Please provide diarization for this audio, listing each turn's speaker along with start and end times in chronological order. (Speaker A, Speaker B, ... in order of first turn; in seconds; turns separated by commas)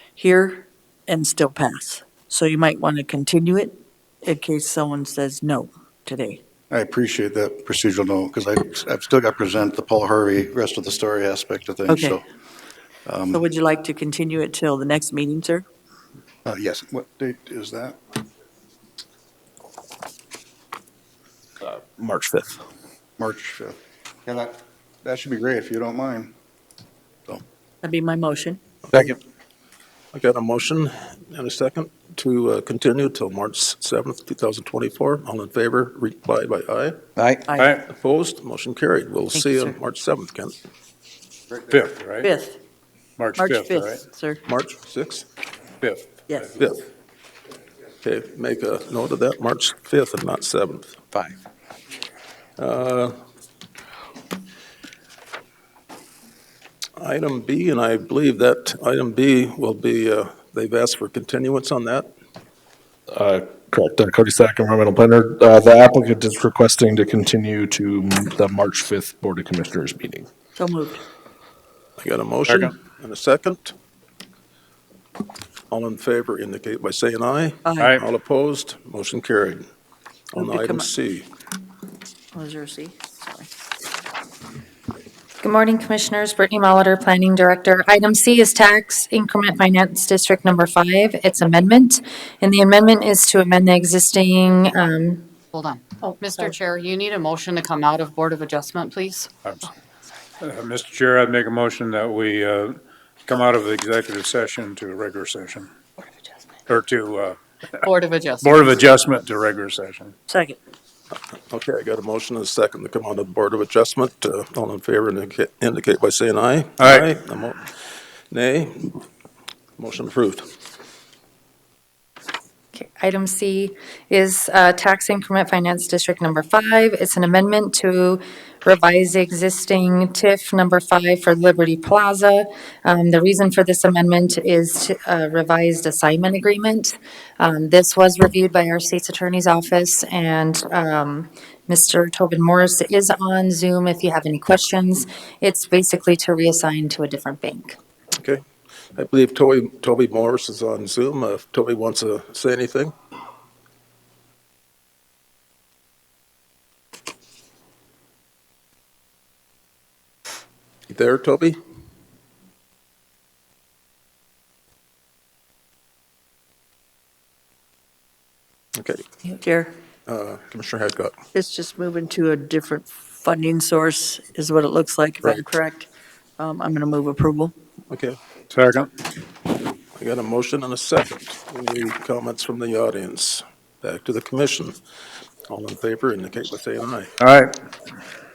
Speaker A: 0.2-6.4, Speaker B: 6.7-12.2, Speaker A: 11.9-12.2, Speaker B: 13.1-13.4, Speaker A: 13.3-15.7, Speaker B: 16.4-18.0, Speaker C: 22.0-22.6, Speaker B: 23.2-26.3, Speaker A: 27.8-28.6, Speaker D: 30.1-37.0, Speaker A: 37.5-37.8, Speaker E: 37.6-37.8, Speaker D: 37.9-40.5, Speaker A: 39.3-39.8, Speaker E: 41.7-42.3, Speaker A: 42.2-42.6, Speaker E: 43.2-44.0, Speaker A: 43.4-44.4, Speaker D: 44.5-45.2, Speaker E: 45.8-46.1, Speaker A: 46.3-46.6, Speaker D: 48.0-51.0, Speaker D: 52.6-53.1, Speaker D: 57.0-62.1, Speaker C: 63.1-70.3, Speaker A: 70.5-71.0, Speaker D: 72.0-73.7, Speaker E: 72.5-72.8, Speaker D: 75.7-79.7, Speaker A: 77.6-77.9, Speaker E: 77.8-78.0, Speaker D: 80.3-81.3, Speaker A: 80.4-80.9, Speaker A: 82.3-83.5, Speaker F: 85.4-95.3, Speaker G: 95.5-99.3, Speaker F: 96.0-96.5, Speaker E: 99.4-99.7, Speaker E: 100.4-105.7, Speaker E: 106.7-107.8, Speaker G: 107.8-108.5, Speaker E: 108.4-110.1, Speaker A: 110.3-110.6, Speaker D: 111.5-117.7, Speaker E: 116.8-117.1, Speaker D: 118.3-119.0, Speaker D: 119.8-120.5, Speaker F: 122.7-147.8, Speaker D: 148.9-152.9, Speaker D: 160.9-161.6, Speaker D: 168.8-169.0, Speaker A: 169.3-169.7, Speaker D: 170.1-171.1, Speaker A: 171.3-175.9, Speaker A: 176.4-177.5, Speaker E: 178.5-178.9, Speaker D: 180.0-184.8, Speaker D: 185.5-187.1, Speaker E: 187.2-187.5